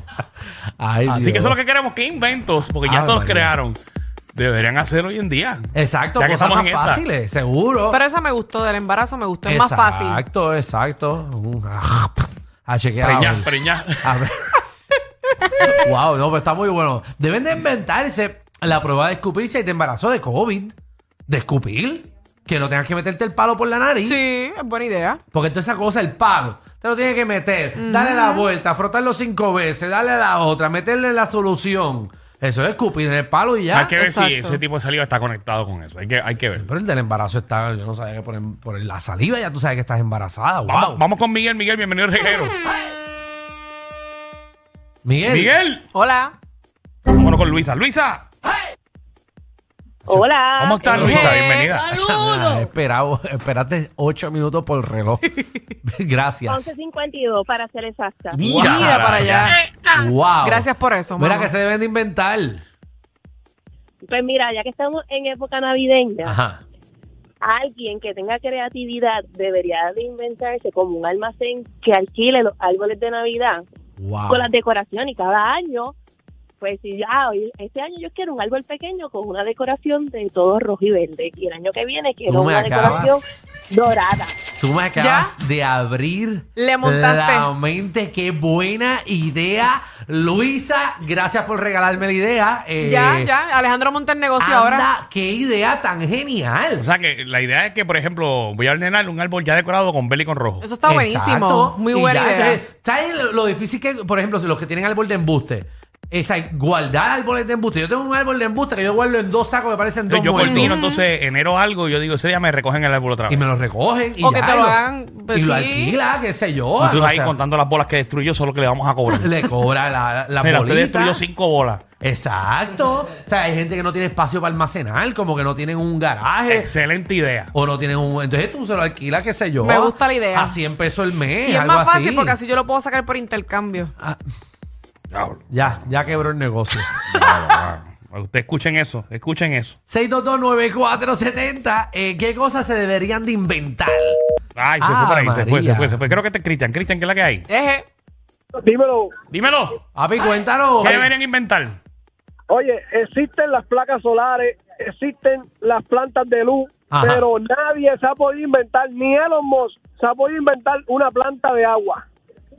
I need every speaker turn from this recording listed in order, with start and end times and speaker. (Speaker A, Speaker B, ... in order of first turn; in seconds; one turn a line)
Speaker A: 0.8-1.6
Speaker B: 1.1-3.8
Speaker A: 2.9-3.5
Speaker B: 4.3-7.0
Speaker A: 5.7-8.0
Speaker C: 7.9-10.2
Speaker A: 9.4-13.5
Speaker B: 13.0-14.2
Speaker A: 14.0-14.5
Speaker A: 15.6-20.8
Speaker A: 21.3-24.2
Speaker C: 24.1-25.2
Speaker A: 25.3-33.9
Speaker C: 27.8-28.5
Speaker B: 33.7-36.7
Speaker C: 33.9-34.6
Speaker A: 36.6-41.0
Speaker B: 40.7-42.5
Speaker A: 45.0-45.5
Speaker B: 45.3-45.9
Speaker C: 45.9-46.3
Speaker B: 47.1-48.2
Speaker D: 50.1-51.6
Speaker B: 50.6-51.9
Speaker A: 50.8-56.7
Speaker D: 56.5-58.4
Speaker B: 58.4-59.6
Speaker C: 58.4-59.7
Speaker A: 58.5-59.0
Speaker A: 59.9-62.6
Speaker C: 60.4-61.5
Speaker D: 64.0-66.4
Speaker A: 66.2-66.6
Speaker D: 67.4-73.7
Speaker A: 74.0-74.5
Speaker D: 74.3-75.9
Speaker D: 76.6-84.4
Speaker A: 82.3-83.2
Speaker A: 84.6-93.3
Speaker C: 85.0-85.3
Speaker C: 86.6-87.5
Speaker C: 92.8-94.9
Speaker A: 94.4-96.9
Speaker B: 96.8-100.7
Speaker C: 100.6-102.6
Speaker A: 100.8-110.8
Speaker B: 110.1-113.5
Speaker C: 110.3-111.0
Speaker A: 113.3-117.4
Speaker C: 114.2-116.0
Speaker B: 116.8-119.3
Speaker A: 119.1-121.2
Speaker B: 120.4-121.8
Speaker A: 122.0-126.7
Speaker B: 126.5-127.5
Speaker A: 127.5-132.4
Speaker C: 129.6-130.6
Speaker C: 131.4-133.9
Speaker B: 135.1-136.0
Speaker A: 135.5-136.9
Speaker B: 137.1-139.8
Speaker A: 139.9-144.2
Speaker B: 144.6-147.5
Speaker A: 144.8-146.1
Speaker C: 147.5-147.8
Speaker E: 148.6-149.1
Speaker B: 149.3-149.8
Speaker A: 149.9-151.1
Speaker B: 150.8-151.8
Speaker E: 152.5-162.0
Speaker A: 156.9-157.2